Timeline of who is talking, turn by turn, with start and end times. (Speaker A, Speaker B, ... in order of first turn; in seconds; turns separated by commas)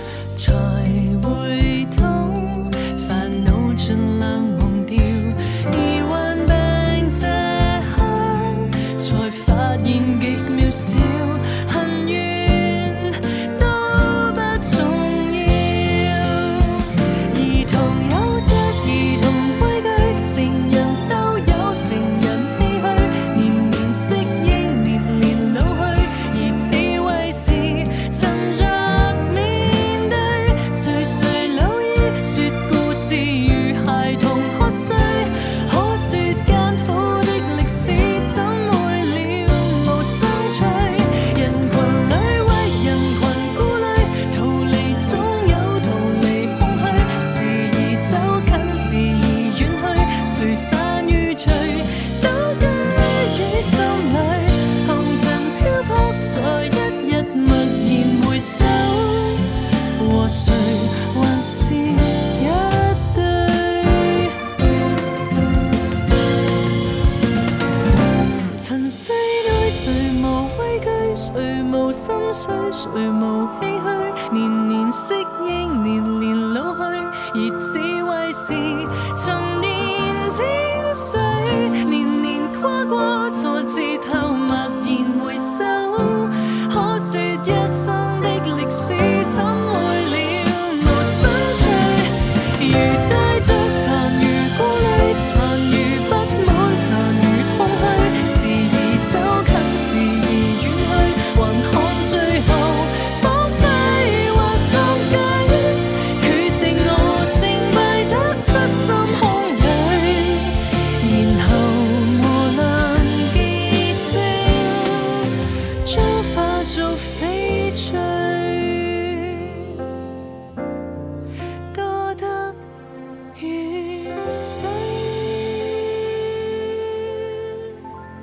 Speaker A: 0.3-64.3, Speaker A: 68.5-119.7, Speaker A: 121.7-122.6, Speaker A: 123.3-127.3